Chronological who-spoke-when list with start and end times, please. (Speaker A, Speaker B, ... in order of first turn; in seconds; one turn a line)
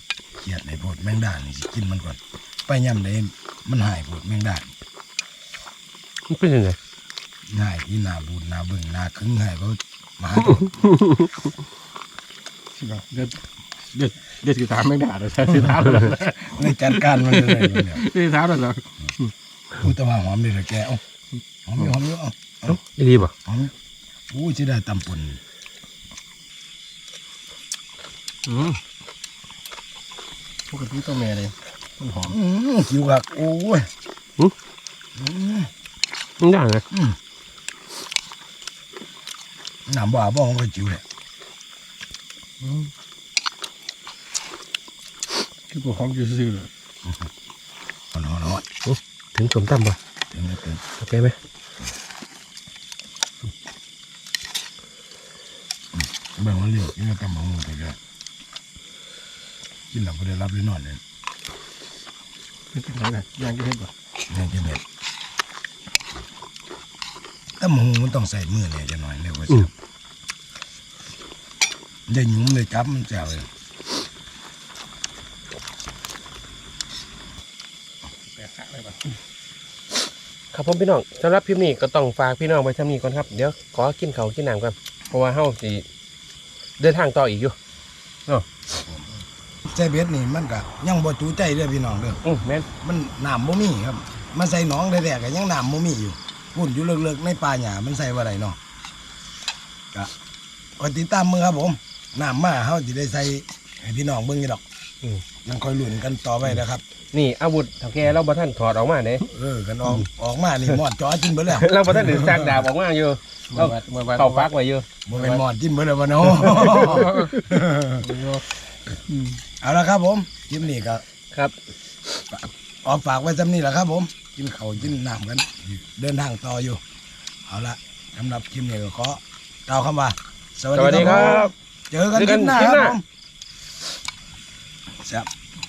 Speaker A: 0.4-4.7
Speaker B: 6.3-6.8
Speaker A: 7.5-10.8
Speaker C: 12.8-19.3
Speaker A: 15.9-18.1
Speaker A: 19.8-21.0
Speaker A: 21.7-22.8
Speaker B: 22.7-23.3
Speaker A: 23.3-23.7
Speaker A: 24.3-25.4
Speaker C: 28.5-28.8
Speaker C: 30.7-32.4
Speaker A: 32.3-33.9
Speaker A: 35.2-35.7
Speaker B: 36.4-36.9
Speaker A: 36.9-37.2
Speaker A: 39.9-41.0
Speaker C: 42.6-42.9
Speaker C: 45.7-46.7
Speaker A: 48.1-48.6
Speaker B: 48.9-50.0
Speaker A: 50.3-50.8
Speaker B: 51.0-51.4
Speaker A: 55.9-58.0
Speaker A: 59.9-61.0
Speaker C: 62.7-63.9
Speaker A: 64.3-64.8
Speaker A: 67.6-69.7
Speaker A: 72.1-73.5
Speaker C: 78.3-79.2
Speaker B: 80.5-85.8
Speaker B: 86.8-87.6
Speaker A: 89.7-92.2
Speaker B: 92.2-92.7
Speaker A: 92.8-98.6
Speaker A: 100.8-104.6
Speaker A: 105.4-106.8
Speaker B: 107.1-109.2
Speaker A: 109.3-112.6
Speaker B: 111.5-114.9
Speaker C: 113.5-114.5
Speaker A: 115.1-118.1
Speaker C: 116.4-118.5
Speaker B: 116.5-117.3
Speaker A: 119.6-121.0
Speaker A: 122.3-126.8
Speaker A: 127.5-133.0
Speaker B: 130.8-131.5
Speaker B: 132.1-133.0
Speaker A: 135.0-135.3